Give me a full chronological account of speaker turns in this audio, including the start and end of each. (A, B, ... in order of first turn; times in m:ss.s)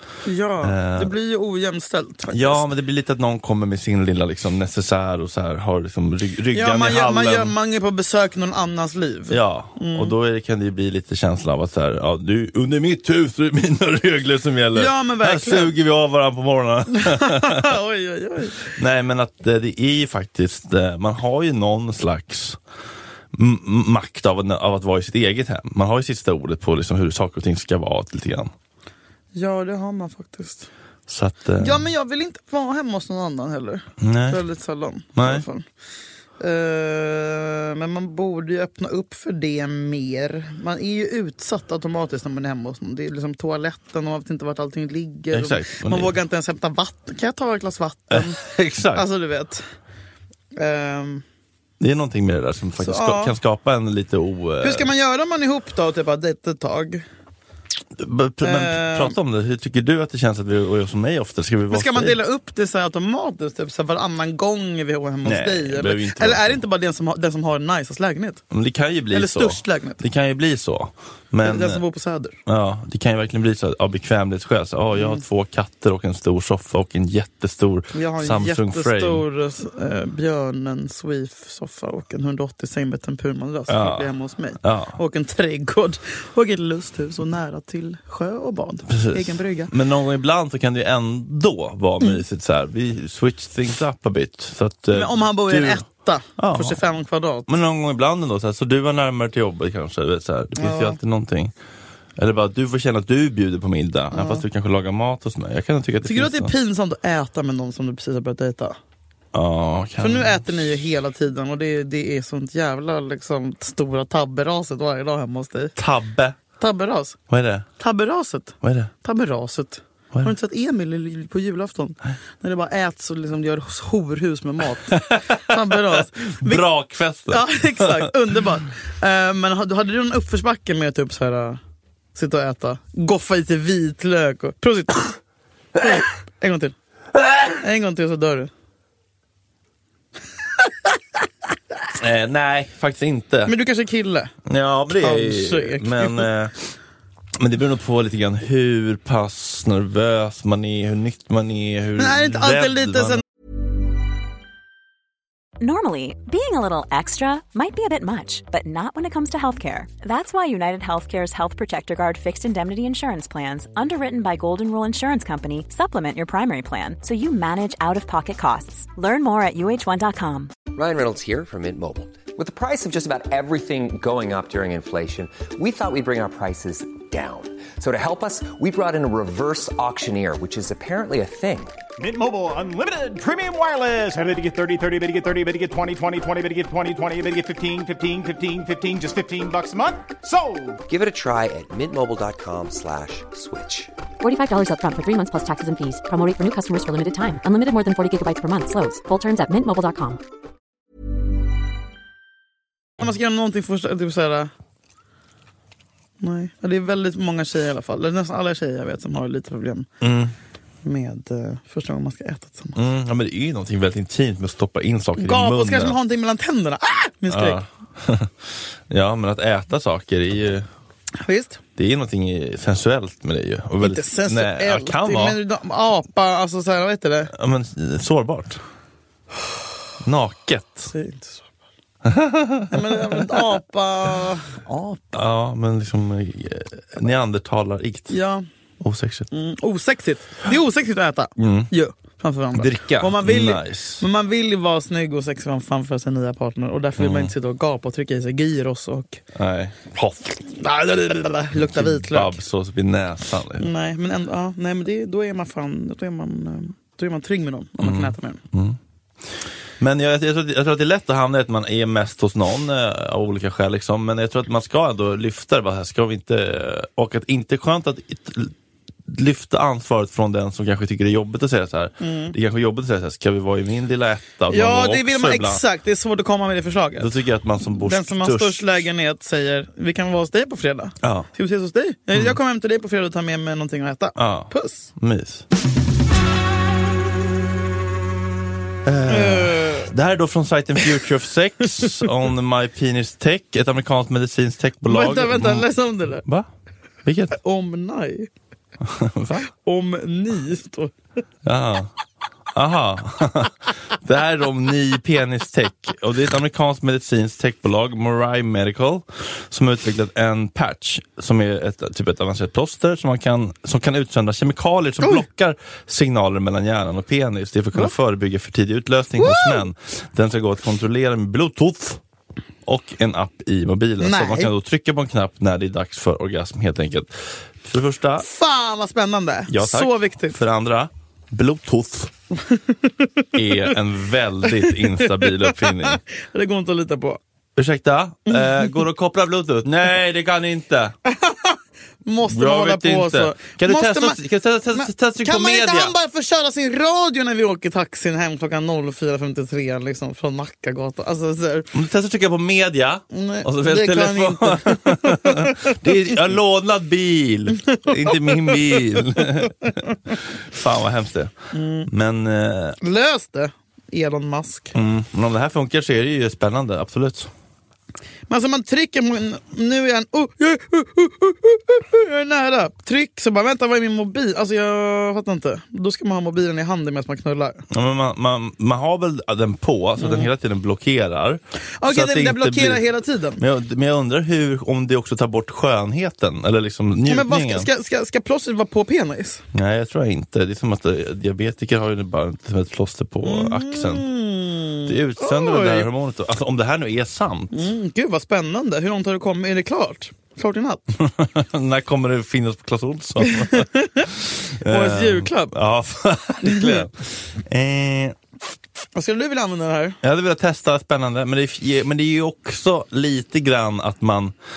0:00.2-0:02.7 A
0:00.6-0:01.1 B
0:02.3-0:07.5 B
0:06.5-0:10.1 A
0:09.3-0:17.7 B
0:14.7-0:15.7 A
0:16.9-0:18.8 A
0:18.7-0:22.6 B
0:23.3-0:28.5 B
0:29.3-0:30.7 A
0:31.1-0:31.8 B
0:31.6-0:35.6 A
0:34.0-0:34.4 B
0:35.1-0:35.4 B
0:36.4-0:49.6 A
0:45.3-0:46.1 B
0:48.1-0:49.1 B
0:50.5-0:51.2 A
0:51.8-0:54.9 B
0:52.8-0:53.3 A
0:54.6-0:57.0 A
0:57.9-1:02.2 B
0:58.4-0:59.1 A
1:01.7-1:08.4 A
1:05.2-1:06.6 B
1:08.5-1:11.8 B
1:09.1-1:10.0 A
1:11.4-1:12.4 A
1:12.4-1:19.2 B
1:14.9-1:15.2 A
1:17.9-1:29.7 A
1:23.7-1:25.0 B
1:28.9-1:35.8 B
1:34.9-1:37.5 A
1:36.4-1:36.8 B
1:37.5-1:41.5 B
1:40.5-1:41.0 A
1:42.2-1:46.5 B
1:44.1-1:44.4 A
1:46.0-1:48.8 A
1:49.3-1:50.8 B
1:50.0-1:55.8 A
1:55.8-1:56.4 B
1:56.6-1:57.2 A
1:57.3-1:57.6 B
1:57.8-2:06.6 A
1:58.6-1:58.9 B
2:04.9-2:08.1 B
2:07.3-2:11.6 A
2:12.1-2:15.1 A
2:15.8-2:16.8 A
2:17.6-2:18.5 A
2:21.9-2:23.5 B
2:23.4-2:24.3 A
2:24.4-2:26.5 B
2:25.0-2:26.3 A
2:27.4-2:33.2 B
2:32.0-2:33.2 A
2:35.6-2:50.5 C
2:50.7-3:01.8 D
3:02.0-3:10.8 E
3:10.9-3:13.9 D
3:14.2-3:20.2 F
3:23.0-3:24.5 A
3:26.2-3:29.9 A
3:30.0-3:30.3 B
3:30.8-3:32.8 A
3:32.7-3:36.0 B
3:35.2-3:37.6 A
3:37.3-3:40.7 B
3:41.1-3:41.6 A
3:41.8-3:45.4 B
3:43.8-3:47.3 A
3:47.3-3:48.6 B
3:50.0-3:50.9 B
3:50.9-3:51.5 A
3:52.0-3:53.4 B
3:52.7-3:55.0 A
3:55.1-3:58.2 B
3:58.1-3:58.4 A
3:58.8-3:59.3 B
3:59.3-4:09.2 A
4:01.4-4:01.7 B
4:02.5-4:04.0 B
4:07.0-4:07.3 B
4:09.3-4:10.4 B
4:10.5-4:12.4 A
4:11.5-4:13.7 B
4:13.6-4:18.4 A
4:17.8-4:28.5 B
4:29.1-4:35.6 B
4:32.0-4:32.4 A
4:34.5-4:37.1 A
4:37.0-4:38.8 B
4:37.7-4:44.9 A
4:41.0-4:41.3 B
4:44.1-4:45.4 B
4:48.8-4:55.7 B
4:49.1-4:49.9 A
4:51.8-4:52.1 A
4:54.8-4:56.2 A
4:57.0-4:57.4 B
4:57.4-4:58.3 A
4:58.8-4:59.4 B
4:59.4-5:00.9 A
5:01.4-5:01.9 B
5:02.5-5:22.0 B
5:15.0-5:15.2 A
5:19.2-5:19.6 A
5:22.6-5:28.2 B
5:24.0-5:24.5 A
5:28.2-5:30.4 A
5:29.5-5:32.1 B
5:32.5-5:33.7 A
5:33.3-5:36.0 B
5:34.4-5:37.2 A
5:37.6-5:41.0 B
5:38.3-5:38.8 A
5:41.0-5:44.2 A
5:42.2-5:45.9 B
5:44.7-5:51.7 A
5:51.7-6:01.3 B
5:53.1-5:56.1 A
5:57.6-5:59.0 A
6:01.5-6:01.9 A
6:01.8-6:02.8 B
6:02.8-6:04.8 A
6:04.7-6:07.3 B
6:08.3-6:17.6 A
6:17.7-6:22.8 B
6:20.0-6:20.3 A
6:21.8-6:23.4 A
6:23.4-6:27.7 B
6:27.0-6:29.4 A
6:29.5-6:34.1 B
6:33.2-6:35.9 A
6:34.8-6:37.7 B
6:37.5-6:40.8 A
6:41.0-6:48.2 B
6:43.2-6:44.1 A
6:44.6-6:45.5 A
6:46.4-6:46.8 A
6:48.9-6:50.0 A
6:50.0-6:54.3 B